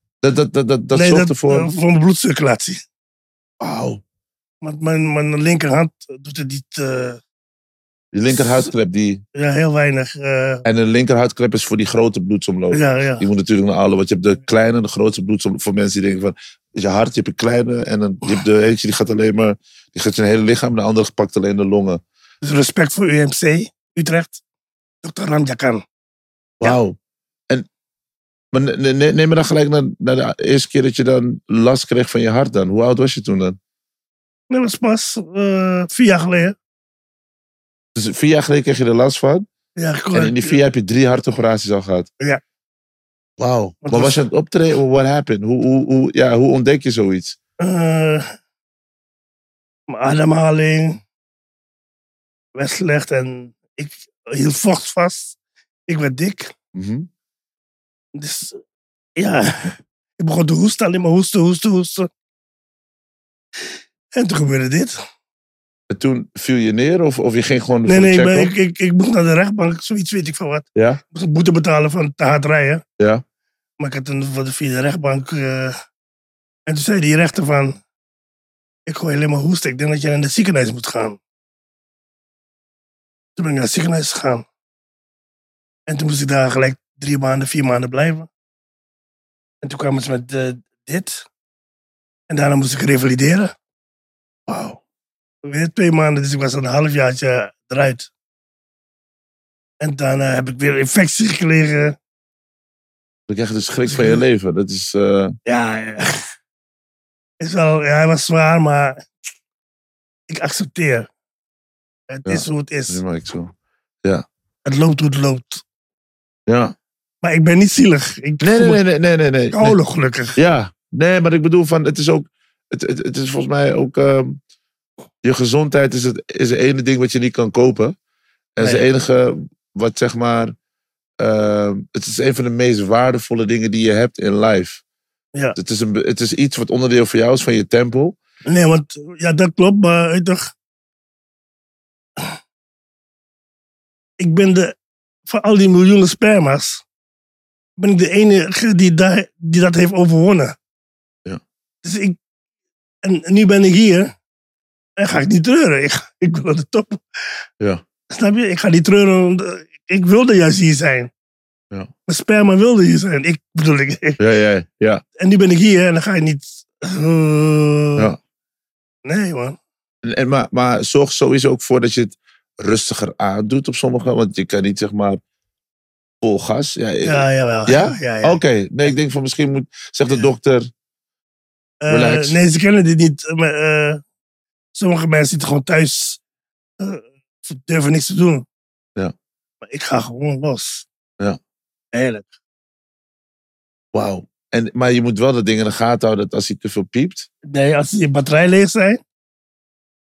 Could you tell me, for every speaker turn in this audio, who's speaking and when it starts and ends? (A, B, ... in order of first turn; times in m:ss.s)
0:00.2-0:01.7 A
0:00.9-0:02.8 B
0:03.6-0:04.0 A
0:04.6-0:07.2 B
0:08.1-0:09.2 A
0:09.4-0:10.6 B
0:10.6-0:22.0 A
0:12.7-0:13.3 B
0:22.4-0:24.4 B
0:25.0-0:25.8 B
0:26.6-0:27.0 A
0:28.5-0:33.6 A
0:34.5-0:36.6 B
0:38.0-0:39.4 A
0:39.8-0:40.6 B
0:40.1-0:42.1 A
0:43.4-0:47.4 A
0:43.8-0:44.2 B
0:47.6-0:48.4 B
0:49.9-0:51.0 B
0:52.6-0:55.4 B
0:55.9-0:56.5 B
0:56.8-0:57.1 A
0:58.2-0:58.6 B
0:59.2-1:02.1 B
1:04.2-1:05.0 B
1:05.9-1:08.5 A
1:07.9-1:12.8 B
1:10.8-1:11.0 A
1:13.8-1:15.8 B
1:16.7-1:17.8 B
1:18.9-1:21.2 B
1:23.4-1:24.4 B
1:25.9-1:28.3 B
1:29.6-1:31.3 B
1:32.3-1:33.5 B
1:34.5-1:34.8 A
1:35.4-1:38.1 B
1:39.8-1:42.0 B
1:43.3-1:45.4 A
1:43.9-1:44.2 B
1:45.5-1:46.2 B
1:47.4-1:49.0 B
1:50.3-1:51.1 B
1:52.1-1:53.0 B
1:52.3-1:53.5 A
1:54.7-1:55.6 B
1:56.5-1:56.8 A
1:57.2-1:58.8 B
1:58.4-1:59.8 A
1:59.5-2:00.4 B
2:00.4-2:04.4 A
2:05.2-2:08.0 A
2:08.6-2:10.6 A
2:08.6-2:08.8 B
2:11.2-2:14.8 A
2:15.6-2:18.2 A
2:18.5-2:20.5 B
2:24.2-2:24.8 B
2:25.3-2:26.8 B
2:27.8-2:30.6 B
2:31.8-2:32.2 B
2:33.0-2:34.1 B
2:35.0-2:37.0 B
2:38.1-2:41.1 B
2:42.1-2:44.2 B
2:44.2-2:45.0 A
2:45.2-2:48.1 B
2:49.0-2:49.6 B
2:50.0-2:55.2 A
2:56.2-3:00.7 A
2:57.0-2:58.4 B
3:01.8-3:04.0 B
3:01.9-3:02.4 A
3:04.8-3:06.2 B
3:06.8-3:08.4 B
3:09.6-3:10.9 B
3:11.9-3:12.3 B
3:13.9-3:17.3 A
3:17.5-3:19.0 B